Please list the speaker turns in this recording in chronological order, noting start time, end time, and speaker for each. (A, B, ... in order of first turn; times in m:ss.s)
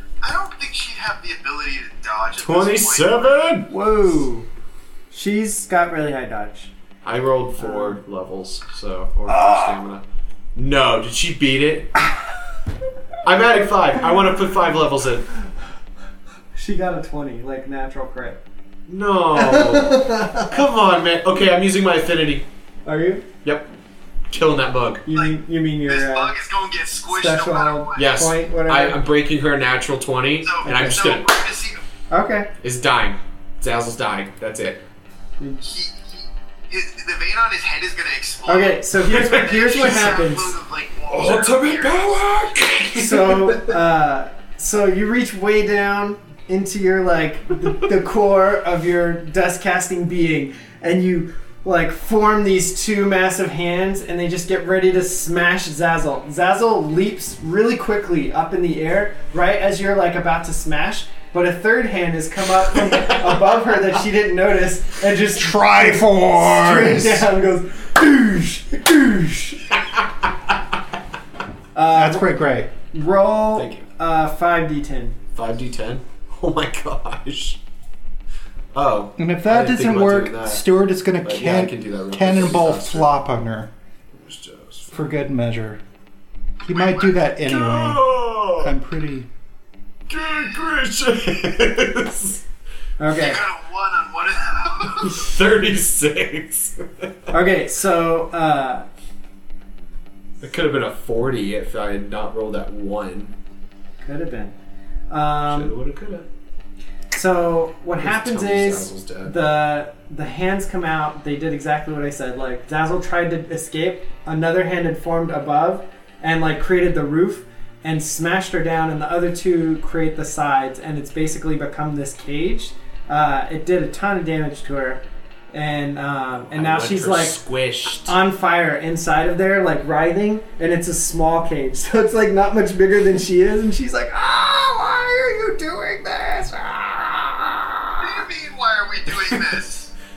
0:00.2-0:03.4 A
0:02.4-0:03.7 B
0:03.7-0:04.5 C
0:05.1-0:06.7 C
0:07.0-0:10.0 B
0:07.6-0:08.0 C
0:10.6-0:12.0 B
0:13.2-0:15.3 B
0:16.5-0:18.4 C
0:18.9-0:22.4 B
0:19.4-0:20.5 C
0:22.8-0:23.3 C
0:23.4-0:23.7 B
0:24.3-0:25.0 B
0:25.1-0:26.3 C
0:25.9-0:28.2 A
0:27.1-0:29.0 C
0:28.0-0:31.3 B
0:30.4-0:31.8 A
0:30.6-0:31.0 C
0:32.1-0:32.5 C
0:32.6-0:34.8 B
0:35.4-0:35.7 C
0:35.6-0:42.3 A
0:38.5-0:40.6 C
0:39.1-0:40.2 B
0:41.1-0:43.8 B
0:42.9-1:09.8 C
1:05.3-1:07.3 D
1:11.7-1:12.4 C
1:11.9-1:12.7 D
1:12.9-1:15.2 C
1:13.6-1:13.9 B
1:15.3-1:17.6 B
1:18.7-1:20.6 B
1:19.2-1:23.7 D
1:21.2-1:23.1 B
1:24.1-1:24.9 B
1:24.9-1:25.8 D
1:26.6-1:29.3 D
1:26.7-1:27.1 A
1:27.4-1:28.8 B
1:30.1-1:32.4 B
1:33.0-1:33.4 C
1:33.1-1:35.3 A
1:35.0-1:37.1 B
1:37.3-1:38.9 C
1:40.4-1:43.3 B
1:44.0-1:44.5 C
1:45.1-1:45.7 C
1:45.5-1:46.3 B
1:47.1-2:07.4 C
1:48.0-1:49.4 B
2:06.5-2:08.2 B
2:08.0-2:18.0 C
2:18.0-2:19.9 A